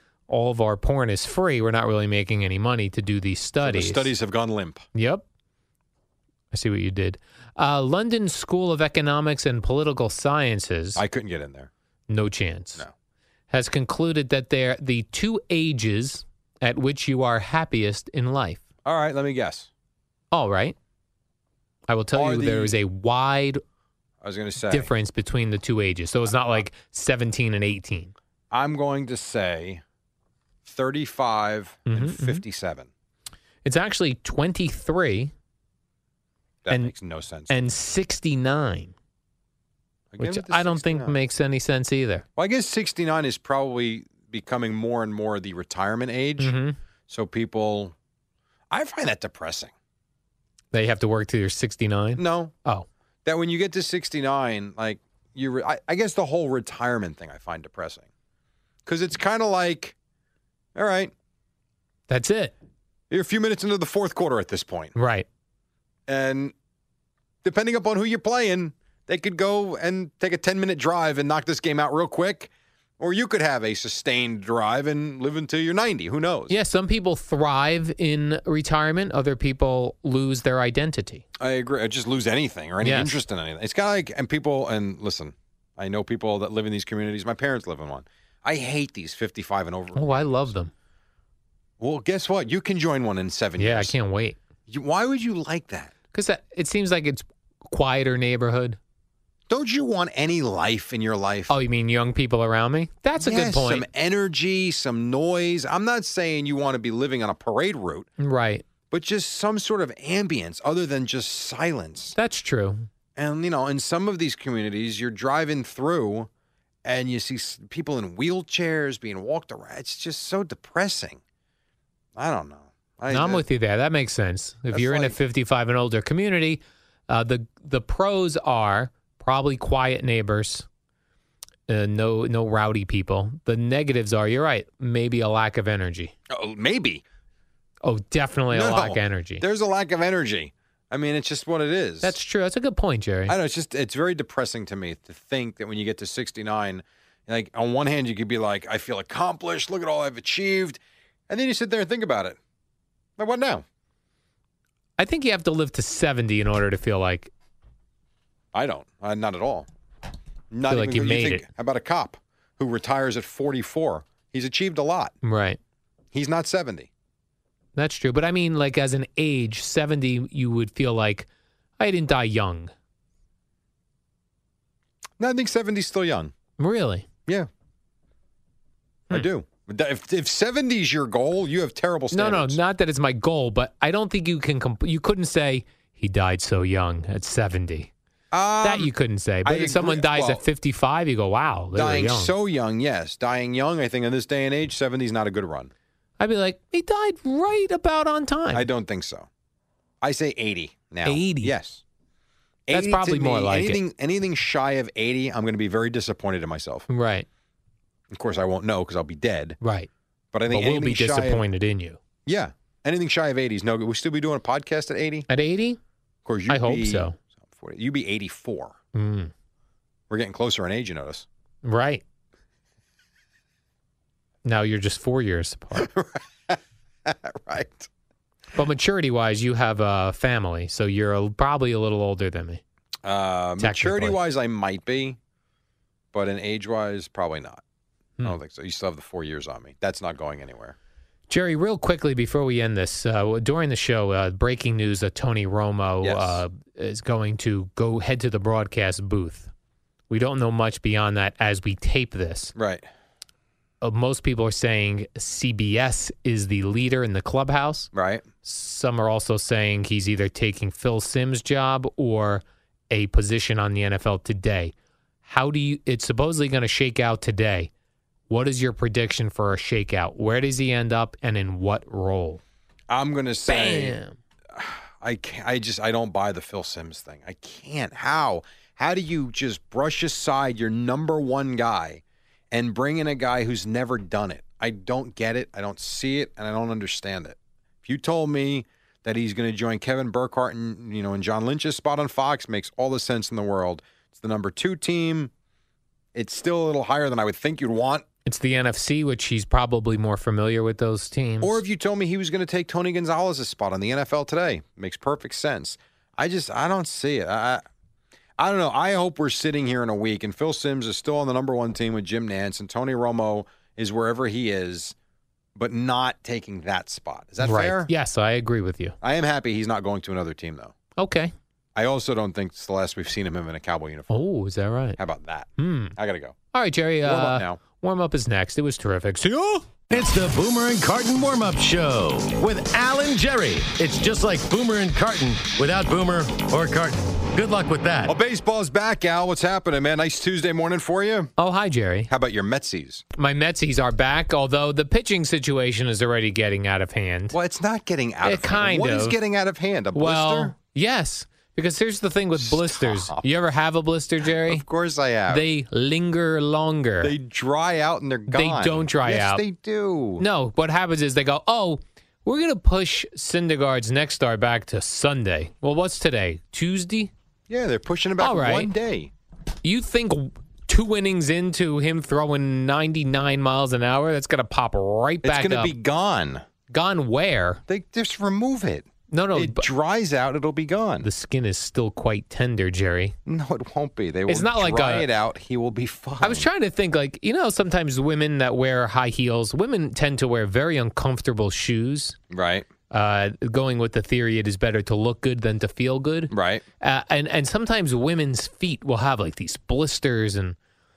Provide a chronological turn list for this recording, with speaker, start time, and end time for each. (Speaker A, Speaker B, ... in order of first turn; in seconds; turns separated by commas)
Speaker A: 0.3-4.1, Speaker B: 3.6-4.8, Speaker A: 4.9-5.2, Speaker A: 6.5-11.0, Speaker B: 10.9-11.7, Speaker A: 12.1-12.8, Speaker A: 13.5-18.6, Speaker B: 18.8-19.7, Speaker A: 20.3-20.8, Speaker A: 21.9-23.6, Speaker B: 22.1-22.7, Speaker B: 24.2-24.9, Speaker A: 24.7-28.1, Speaker B: 28.5-29.8, Speaker B: 30.6-32.9, Speaker A: 31.9-32.4, Speaker A: 33.6-35.3, Speaker B: 36.6-37.5, Speaker A: 37.5-38.9, Speaker B: 40.1-41.1, Speaker A: 40.2-42.2, Speaker B: 42.4-46.5, Speaker A: 46.4-46.8, Speaker B: 47.1-47.9, Speaker B: 48.7-49.7, Speaker A: 50.7-52.9, Speaker B: 52.2-52.5, Speaker B: 53.2-58.0, Speaker B: 58.9-59.9, Speaker B: 60.7-61.1, Speaker A: 62.1-62.5, Speaker B: 63.1-64.9, Speaker A: 64.9-65.2, Speaker B: 66.1-66.5, Speaker B: 67.4-76.5, Speaker A: 76.5-81.2, Speaker B: 81.4-90.5, Speaker A: 82.8-83.2, Speaker A: 89.9-90.7, Speaker B: 91.8-93.9, Speaker A: 93.6-94.4, Speaker B: 94.7-95.9, Speaker A: 96.1-98.8, Speaker B: 99.5-101.5, Speaker A: 101.5-103.8, Speaker B: 103.2-108.1, Speaker A: 108.2-108.6, Speaker B: 108.9-112.2, Speaker A: 112.2-112.9, Speaker B: 113.2-116.3, Speaker B: 116.8-121.2, Speaker B: 122.2-123.4, Speaker A: 123.1-130.7, Speaker B: 124.7-125.2, Speaker A: 131.7-136.1, Speaker B: 136.3-137.0, Speaker A: 137.8-139.4, Speaker B: 138.5-142.1, Speaker A: 142.0-143.3, Speaker B: 143.3-152.4, Speaker B: 153.2-153.6, Speaker A: 155.0-157.3, Speaker B: 158.5-159.7, Speaker B: 160.5-165.1, Speaker A: 160.7-161.4, Speaker A: 165.2-165.6, Speaker B: 166.1-166.9, Speaker A: 167.8-171.3, Speaker A: 171.8-172.7, Speaker B: 175.2-176.3, Speaker A: 176.6-177.1, Speaker B: 179.1-182.6, Speaker A: 182.1-187.9, Speaker B: 188.3-188.9, Speaker A: 188.6-192.3, Speaker B: 189.4-190.4, Speaker B: 191.7-195.7, Speaker A: 196.2-198.7, Speaker B: 198.5-199.3, Speaker B: 200.0-201.8, Speaker A: 201.0-201.5, Speaker B: 202.7-206.9, Speaker A: 202.7-203.8, Speaker A: 206.9-207.3, Speaker B: 208.1-209.6, Speaker A: 209.6-209.9, Speaker B: 210.3-211.4, Speaker A: 210.5-212.0, Speaker B: 212.2-215.3, Speaker A: 215.3-215.8, Speaker B: 216.2-218.8, Speaker A: 216.5-217.2, Speaker A: 218.9-219.3, Speaker B: 220.1-221.2, Speaker A: 221.6-222.0, Speaker A: 224.4-225.9, Speaker B: 225.7-227.9, Speaker A: 228.5-232.6, Speaker B: 233.0-235.2, Speaker A: 233.6-234.2, Speaker B: 236.1-237.6, Speaker B: 238.2-240.7, Speaker A: 241.3-249.5, Speaker B: 246.0-246.4, Speaker A: 250.1-252.5, Speaker B: 252.5-252.8, Speaker A: 253.8-257.9, Speaker B: 257.9-258.2, Speaker A: 258.4-264.7, Speaker A: 265.2-267.7, Speaker A: 268.3-272.4, Speaker B: 272.9-274.0, Speaker A: 273.5-274.2, Speaker B: 274.5-295.3, Speaker B: 296.1-298.0, Speaker A: 298.2-301.6, Speaker B: 301.4-307.6, Speaker B: 308.4-314.9, Speaker B: 315.6-317.9, Speaker A: 317.4-318.9, Speaker B: 319.0-320.7, Speaker A: 321.0-321.3, Speaker B: 321.8-324.2, Speaker A: 324.1-325.0, Speaker B: 325.0-326.4, Speaker A: 325.6-325.9, Speaker A: 326.5-329.6, Speaker B: 327.0-327.6, Speaker C: 329.9-338.1, Speaker B: 338.1-341.3, Speaker A: 341.4-342.1, Speaker B: 342.1-343.0, Speaker A: 343.1-347.3, Speaker B: 347.3-350.5, Speaker A: 348.2-349.1, Speaker A: 349.9-354.6, Speaker B: 352.4-353.2, Speaker B: 354.2-355.4, Speaker A: 355.3-357.1, Speaker B: 357.0-360.2, Speaker A: 358.3-359.4, Speaker A: 360.2-367.1, Speaker B: 367.5-369.1, Speaker A: 368.2-368.7, Speaker A: 369.6-375.7, Speaker B: 375.2-376.4, Speaker A: 376.7-377.6, Speaker B: 377.7-381.1, Speaker A: 379.1-379.7, Speaker A: 381.0-383.1, Speaker B: 383.2-386.5, Speaker A: 384.3-385.1, Speaker A: 386.2-392.2, Speaker B: 392.3-392.7, Speaker A: 392.9-400.6, Speaker B: 396.3-396.6